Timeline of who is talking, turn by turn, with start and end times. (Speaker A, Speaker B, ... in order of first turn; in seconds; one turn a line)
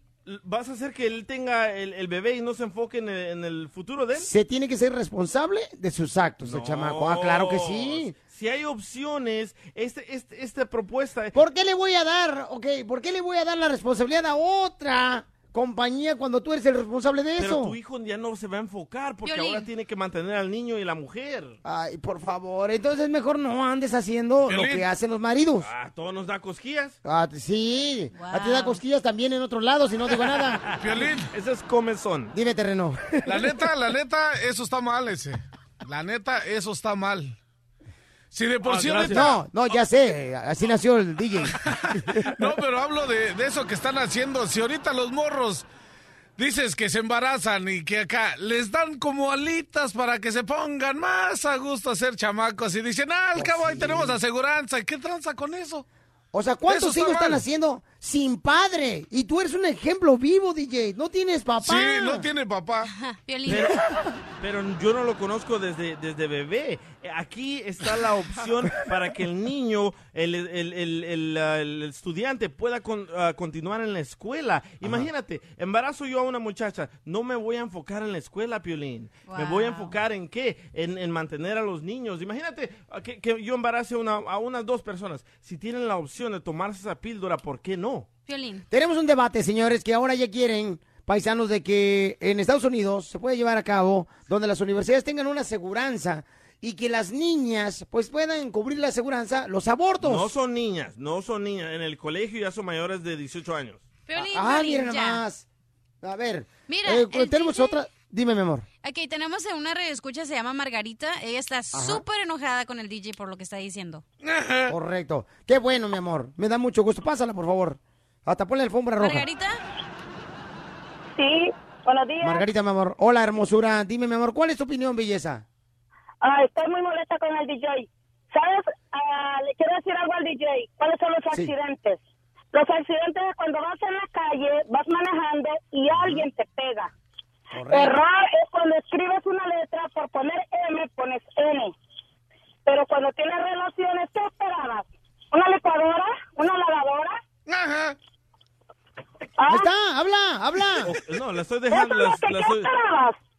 Speaker A: 0.2-4.3
Speaker B: 4.2-8.1
Speaker A: 6.4-11.3
Speaker B: 11.3-17.7
Speaker A: 17.4-21.6
Speaker C: 19.2-19.7
Speaker B: 21.6-25.7
Speaker D: 24.5-24.9
Speaker A: 25.6-26.9
Speaker B: 27.0-30.6
Speaker C: 28.1-28.8
Speaker A: 30.3-32.3
Speaker D: 30.8-31.3
Speaker B: 32.3-33.5
Speaker D: 33.2-37.4
Speaker D: 38.3-39.4
Speaker A: 38.6-39.4
Speaker B: 39.1-41.5
Speaker D: 41.6-45.6
Speaker D: 46.4-55.8
Speaker B: 53.3-54.2
Speaker B: 56.3-62.2
Speaker D: 56.7-57.4
Speaker D: 61.6-62.9
Speaker C: 62.9-63.8
Speaker A: 63.5-63.8
Speaker A: 64.4-88.1
Speaker C: 79.3-80.0
Speaker C: 88.3-88.6
Speaker B: 88.7-100.3
Speaker A: 100.0-103.8
Speaker C: 104.1-105.2
Speaker B: 104.2-105.4
Speaker B: 106.0-108.7
Speaker C: 106.7-107.8
Speaker C: 108.8-114.0
Speaker B: 111.7-112.0
Speaker D: 114.2-114.7
Speaker B: 114.7-119.2
Speaker C: 119.0-119.5
Speaker E: 121.2-122.4
Speaker B: 122.2-125.4
Speaker E: 126.2-132.0
Speaker E: 132.5-136.9
Speaker B: 137.5-137.9
Speaker E: 137.7-141.7
Speaker E: 142.7-147.2
Speaker D: 147.5-147.9
Speaker E: 149.4-149.7
Speaker B: 149.5-150.9
Speaker A: 150.8-152.7
Speaker E: 151.7-153.1